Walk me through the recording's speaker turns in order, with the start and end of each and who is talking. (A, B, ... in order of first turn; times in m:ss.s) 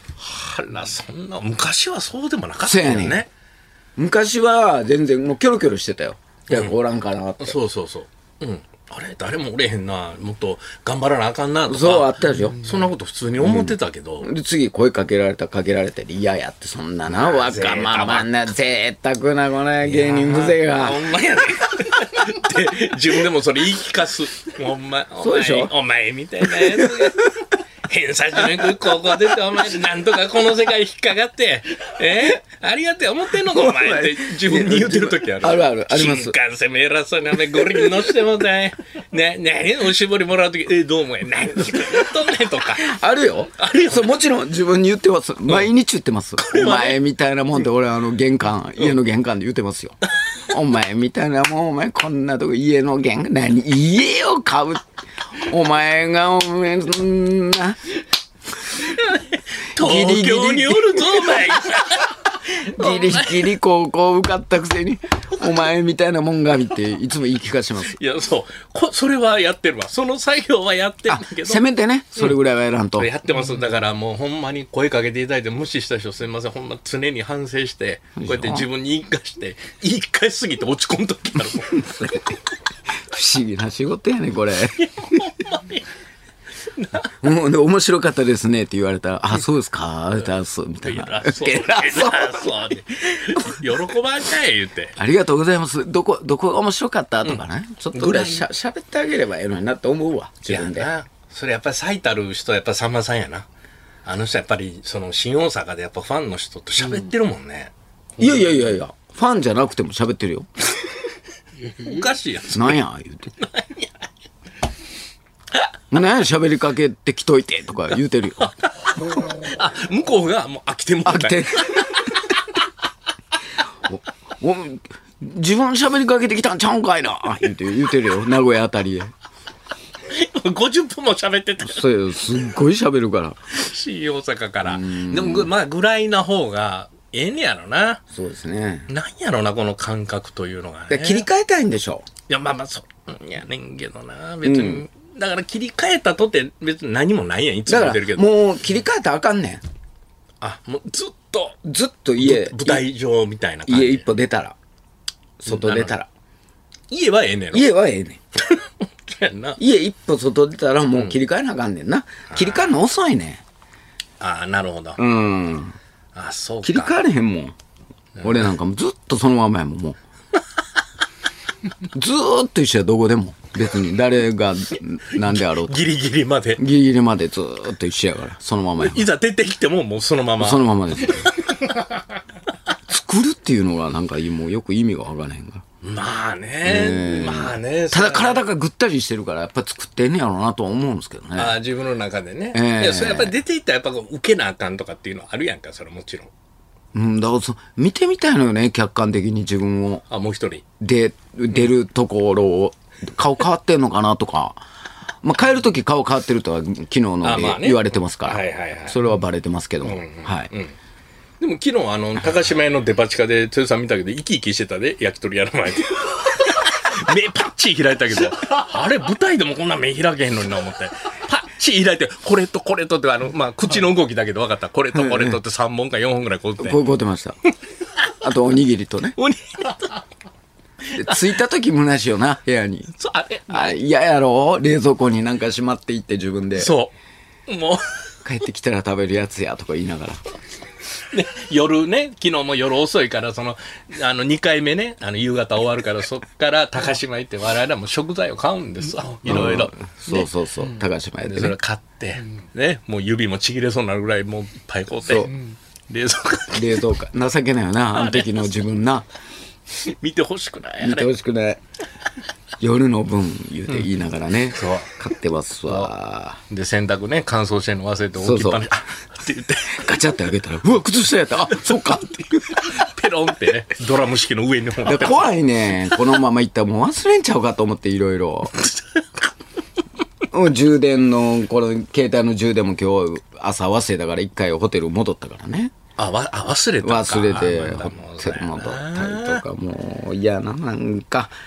0:00.2-0:03.3 A
0:02.6-0:03.2 B
0:04.0-0:07.6 B
0:06.5-0:06.7 A
0:07.4-0:14.3 A
0:11.7-0:12.6 B
0:13.4-0:21.0 B
0:17.1-0:18.3 A
0:19.8-0:27.3 A
0:25.2-0:25.7 B
0:26.4-0:27.3 B
0:27.9-0:43.0 A
0:28.6-0:29.0 B
0:33.4-0:36.4 B
0:37.6-0:38.0 B
0:42.8-0:54.8 B
0:43.6-0:44.1 A
0:46.4-0:47.0 A
0:55.4-0:57.8 B
0:58.8-1:03.5 A
0:59.8-1:01.8 B
1:02.5-1:08.0 B
1:07.8-1:11.6 A
1:11.1-1:13.1 B
1:13.0-1:22.2 A
1:18.2-1:18.7 B
1:21.7-1:22.4 B
1:23.0-1:25.3 B
1:24.8-1:25.8 A
1:26.7-1:27.1 A
1:27.2-1:33.8 B
1:30.8-1:35.0 A
1:35.0-1:40.9 B
1:37.9-1:38.4 A
1:40.5-1:43.5 A
1:44.0-1:47.7 A
1:48.2-1:50.5 B
1:51.6-1:52.8 A
1:52.4-1:53.3 B
1:53.4-1:54.0 A
1:55.9-1:58.6 B
1:59.2-2:02.3 A
2:01.0-2:02.2 B
2:03.8-2:09.1 B
2:10.1-2:11.8 A
2:11.6-2:13.4 B
2:13.5-2:18.0 A
2:14.6-2:15.5 B
2:18.1-2:18.9 B
2:18.9-2:21.3 A
2:20.9-2:22.1 B
2:22.3-2:28.3 A
2:24.4-2:24.9 B
2:27.7-2:29.6 B
2:30.4-2:31.6 A
2:31.6-2:32.9 B
2:32.2-2:34.1 A
2:33.7-2:34.6 B
2:35.4-2:36.1 B
2:35.5-2:36.0 A
2:36.9-2:37.7 A
2:37.5-2:38.2 B
2:38.4-2:39.6 A
2:39.6-2:43.4 B
2:42.3-2:42.7 A
2:44.2-2:45.0 A
2:45.0-2:45.7 B
2:46.1-2:47.0 A
2:46.6-2:47.6 B
2:48.2-2:50.0 B
2:51.9-2:55.9 B
2:55.2-2:56.6 A
2:56.6-2:59.1 B
2:58.8-3:01.5 A
3:00.4-3:01.4 B
3:02.9-3:05.6 B
3:05.8-3:08.4 A
3:06.6-3:11.6 B
3:11.4-3:16.3 A
3:12.5-3:13.4 B
3:16.9-3:20.0 B
3:20.1-3:20.6 A
3:20.8-3:24.6 B
3:25.2-3:30.5 B
3:27.2-3:29.0 A
3:29.8-3:30.7 A
3:31.4-3:46.9 A
3:44.9-3:45.4 B
3:46.6-3:47.4 B
3:48.2-3:49.2 B
3:49.2-3:50.0 A
3:50.9-3:52.9 B
3:53.0-3:53.8 A
3:53.5-3:56.7 B
3:56.6-3:56.9 A
3:57.5-3:57.9 A
3:58.2-4:00.2 B
4:01.1-4:10.2 A
4:09.2-4:11.6 B
4:11.2-4:15.3 A
4:15.1-4:15.3 B
4:15.9-4:16.7 A
4:16.5-4:19.1 B
4:18.0-4:18.2 A
4:19.8-4:21.1 A
4:20.8-4:21.6 B
4:22.6-4:26.4 B
4:24.5-4:25.0 A
4:25.6-4:25.9 A
4:26.5-4:30.0 A
4:28.2-4:28.7 B
4:29.7-4:32.8 B
4:31.5-4:31.9 A
4:32.5-4:35.3 A
4:34.8-4:38.6 B
4:38.6-4:39.3 A
4:40.3-4:45.7 B
4:46.0-4:49.4 A
4:46.8-4:51.3 B